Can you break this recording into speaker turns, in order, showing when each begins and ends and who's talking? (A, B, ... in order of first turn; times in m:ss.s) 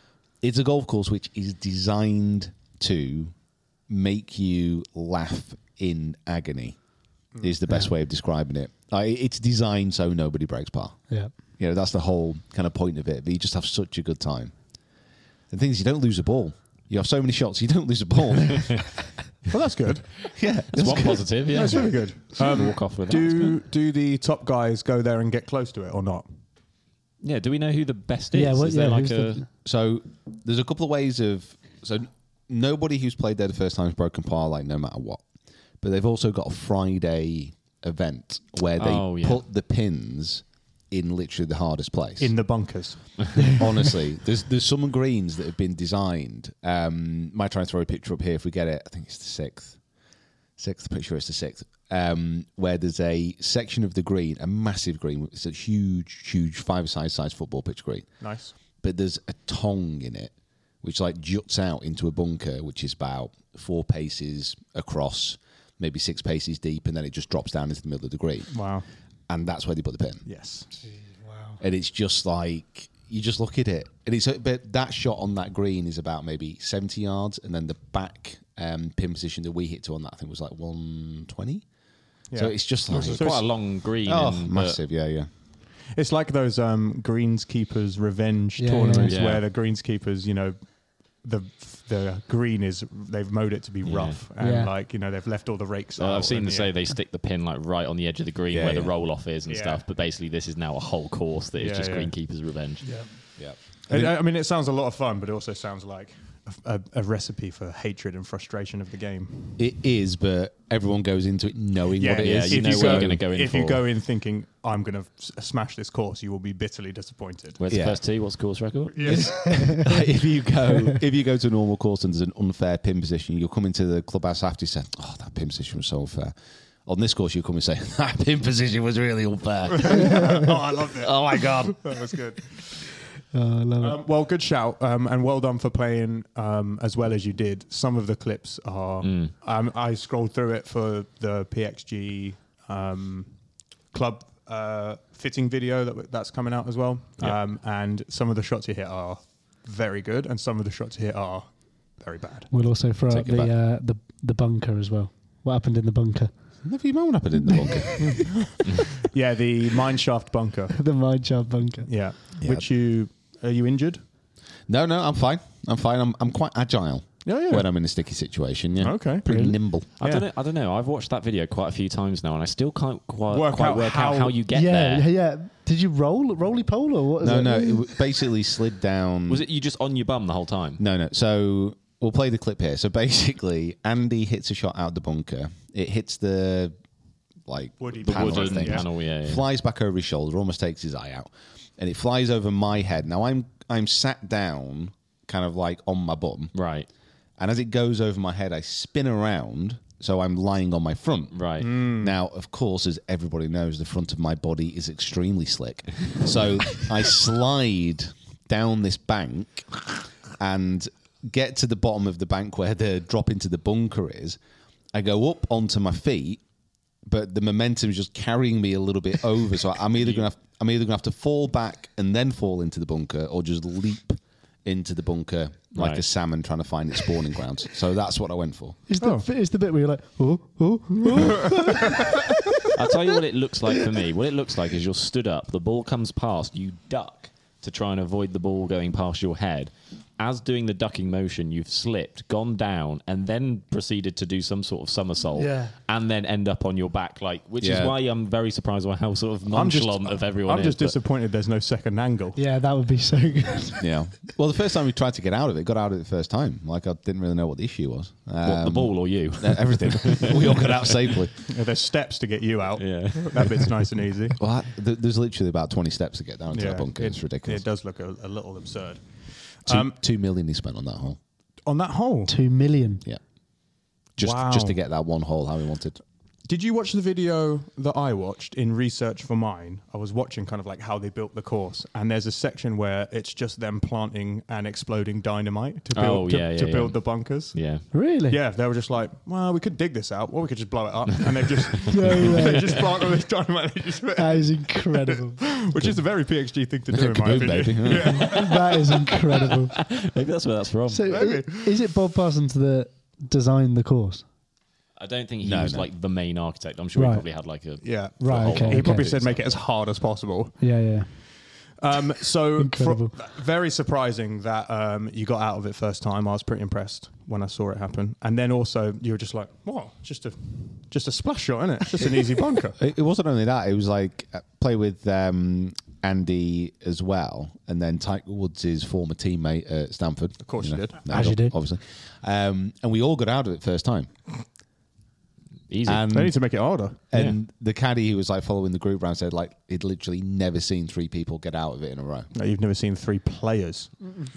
0:00.4-0:03.3 A
0:03.9-0:06.8 A
0:07.4-0:14.8 A
0:15.5-0:18.9 A
0:19.5-0:20.1 B
0:20.3-0:21.7 A
0:20.7-0:23.5 C
0:21.5-0:26.3 B
0:27.2-0:29.4 C
0:28.3-0:29.4 D
0:29.6-0:35.2 A
0:35.8-0:42.5 A
0:38.8-0:39.4 C
0:42.2-0:43.5 B
0:43.6-0:49.8 A
0:50.6-1:08.6 A
0:58.2-0:58.5 B
1:08.5-1:08.9 B
1:09.3-1:10.2 A
1:10.2-1:10.7 B
1:11.2-1:11.6 D
1:11.6-1:21.6 A
1:22.3-1:23.4 B
1:22.3-1:25.3 A
1:22.9-1:24.8 C
1:25.9-1:36.7 B
1:28.6-1:29.1 D
1:29.1-1:29.4 C
1:33.8-1:34.2 C
1:34.4-1:34.7 D
1:36.0-1:42.8 C
1:38.5-1:38.9 A
1:39.5-1:39.9 B
1:41.6-1:42.1 B
1:42.8-1:43.3 B
1:43.4-1:44.2 A
1:43.9-1:49.6 B
1:49.6-1:53.2 A
1:52.0-1:57.6 B
1:52.2-1:53.8 C
1:57.6-1:59.4 C
1:57.7-1:58.0 A
1:58.9-1:59.7 B
1:59.0-2:06.3 A
2:06.8-2:12.0 A
2:09.7-2:12.9 B
2:13.3-2:14.0 D
2:13.8-2:23.3 B
2:19.0-2:19.3 C
2:23.9-2:32.5 B
2:32.5-2:36.3 D
2:36.6-2:38.3 A
2:37.5-2:37.8 D
2:38.0-2:40.8 B
2:40.8-2:41.9 D
2:41.8-2:44.0 B
2:42.4-2:42.6 A
2:44.7-2:49.9 A
2:47.2-2:47.7 B
2:48.8-2:49.3 B
2:49.3-2:49.6 D
2:50.0-2:55.1 C
2:50.0-2:50.2 B
2:53.3-2:54.4 B
2:54.5-2:58.0 D
2:57.2-2:59.4 A
2:59.3-3:00.8 C
3:00.8-3:06.7 A
3:07.4-3:16.5 A
3:07.8-3:08.9 B
3:08.0-3:09.4 C
3:16.5-3:16.9 C
3:17.4-3:34.4 A
3:21.3-3:21.7 C
3:21.6-3:22.1 B
3:34.9-3:36.4 A
3:37.0-3:48.8 A
3:45.7-3:46.0 C
3:48.9-3:52.2 D
3:49.0-3:49.2 B
3:52.7-4:11.0 C
4:05.4-4:05.7 D
4:07.6-4:08.0 A
4:09.5-4:12.4 B
4:12.3-4:13.9 D
4:13.8-4:21.3 A
4:18.4-4:20.9 C
4:21.4-4:24.4 B
4:22.8-4:23.7 C
4:24.4-4:27.6 A
4:26.5-4:30.0 B
4:29.6-4:31.2 A
4:31.6-4:32.3 B
4:32.3-4:33.0 D
4:34.2-4:34.8 B
4:34.2-4:36.0 A
4:36.4-4:59.0 B
4:45.9-4:47.9 C
4:47.9-4:48.4 D
4:51.9-4:52.7 D
4:52.0-4:52.7 C
4:54.2-4:55.4 D
4:56.9-4:58.3 A
4:58.2-4:59.7 D
4:59.8-5:01.1 C
5:00.9-5:04.2 D
5:01.1-5:01.8 B
5:05.0-5:09.6 C
5:05.4-5:05.9 A
5:06.9-5:07.3 D
5:07.8-5:10.6 B
5:08.2-5:09.1 D
5:10.6-5:11.1 D
5:11.8-5:22.8 B
5:12.6-5:13.2 D
5:22.8-5:34.1 A
5:30.4-5:31.3 B
5:31.1-5:31.5 D
5:35.7-5:36.2 C
5:35.8-5:36.5 A
5:36.1-5:37.0 B
5:37.1-5:42.3 A
5:42.3-5:44.1 B